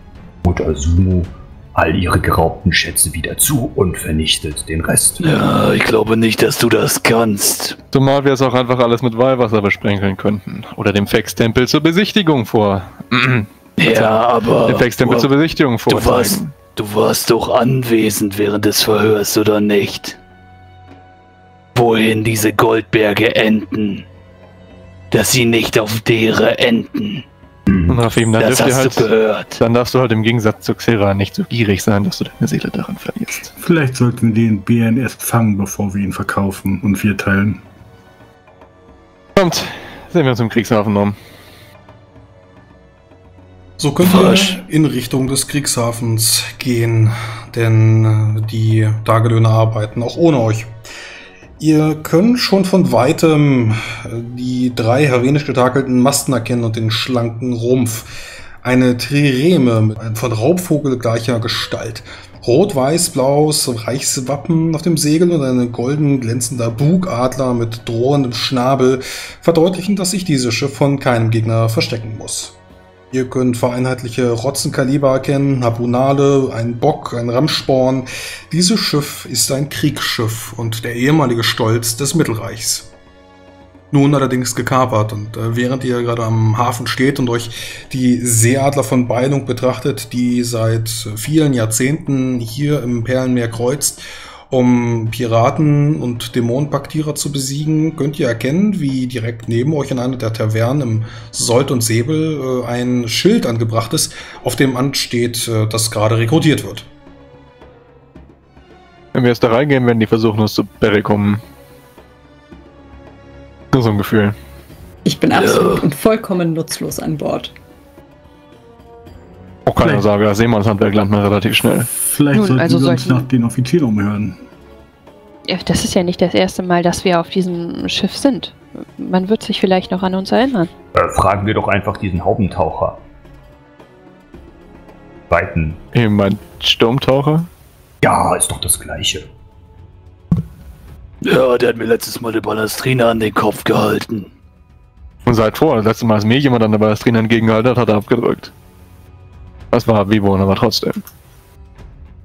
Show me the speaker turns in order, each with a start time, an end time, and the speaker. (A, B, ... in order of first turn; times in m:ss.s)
0:00.4-0:05.2 A
0:05.2-0:07.8 B
0:07.9-0:16.5 C
0:13.8-0:15.3 B
0:15.9-0:20.2 B
0:21.8-0:24.0 B
0:25.1-0:27.2 B
0:27.7-0:28.0 A
0:27.9-0:33.5 C
0:28.4-0:29.6 B
0:33.6-0:37.6 D
0:39.4-0:41.2 C
0:43.8-0:50.7 E
0:44.0-0:44.6 B
0:51.6-1:12.6 E
1:13.1-1:22.9 E
1:23.9-1:46.9 E
1:49.1-1:51.4 C
1:53.7-1:54.4 C
1:55.0-1:57.6 F
1:55.3-1:55.8 B
1:59.7-2:01.9 C
1:59.8-2:00.1 D
2:01.9-2:04.4 D
2:02.3-2:03.3 G
2:05.5-2:10.7 G
2:10.9-2:13.0 A
2:15.3-2:15.8 A
2:15.9-2:17.5 C
2:18.0-2:19.3 A
2:21.2-2:24.3 B
2:25.3-2:28.5 C
2:29.7-2:31.0 C